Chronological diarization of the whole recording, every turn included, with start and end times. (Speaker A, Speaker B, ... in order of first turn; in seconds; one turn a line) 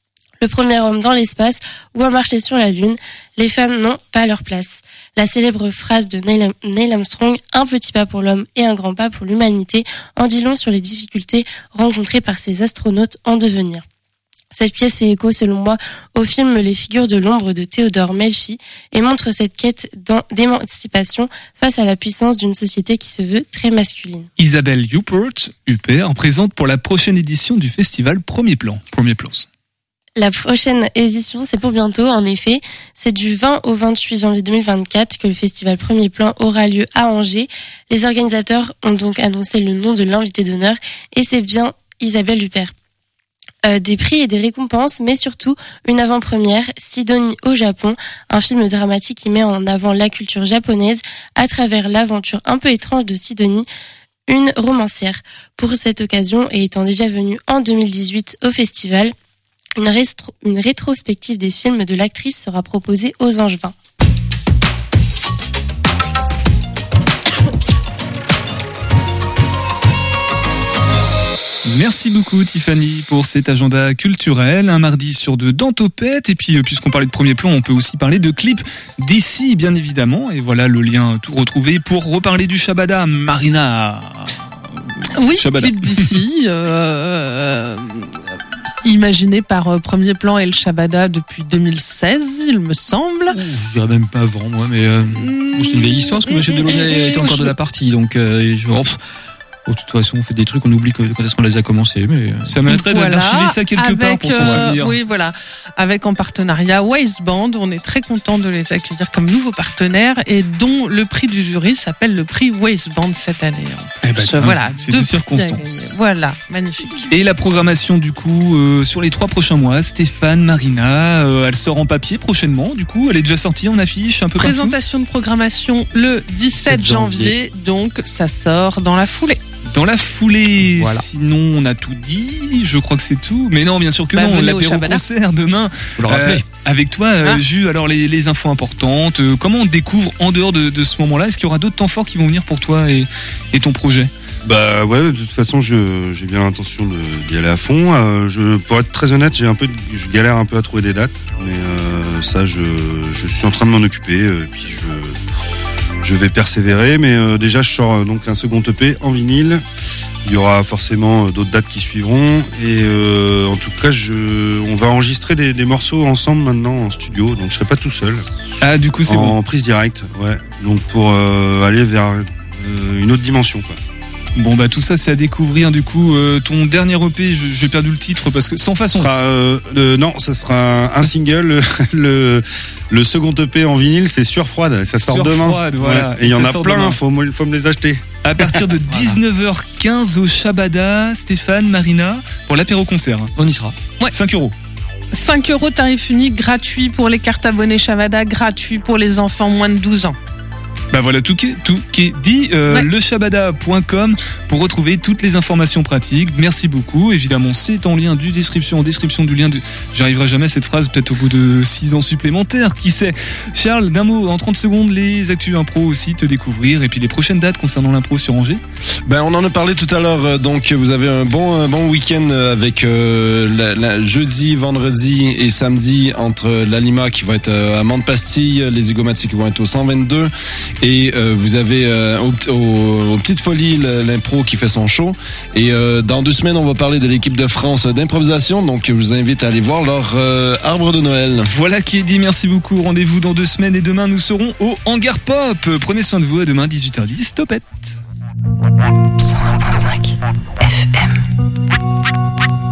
Speaker A: 0.4-13.8
Speaker A: 14.5-24.3
Speaker B: 24.4-29.5
Speaker A: 30.2-42.7
Speaker A: 43.7-53.7
Speaker A: 54.3-59.1
Speaker A: 59.8-63.7
Speaker B: 71.7-84.4
Speaker C: 85.2-88.2
Speaker B: 85.4-86.1
Speaker C: 88.8-93.4
Speaker D: 93.3-99.0
Speaker C: 95.1-97.5
Speaker D: 99.7-102.6
Speaker B: 102.5-105.0
Speaker C: 102.7-117.1
Speaker D: 104.4-104.7
Speaker B: 114.0-116.0
Speaker B: 117.1-124.8
Speaker C: 124.4-129.4
Speaker D: 126.6-127.3
Speaker B: 129.7-144.1
Speaker D: 130.8-131.1
Speaker C: 134.1-135.0
Speaker D: 136.0-136.4
Speaker E: 144.4-155.2
Speaker E: 156.0-159.6
Speaker E: 160.2-168.3
Speaker B: 168.6-169.4
Speaker E: 169.1-173.8
Speaker B: 174.4-179.1
Speaker E: 178.9-188.6
Speaker B: 185.0-187.0
Speaker B: 188.2-193.3
Speaker D: 193.4-193.8
Speaker B: 194.1-194.6
Speaker C: 195.1-200.2
Speaker B: 200.9-218.6
Speaker F: 219.1-230.3
Speaker F: 230.8-241.5
Speaker B: 241.5-248.0
Speaker G: 249.2-251.2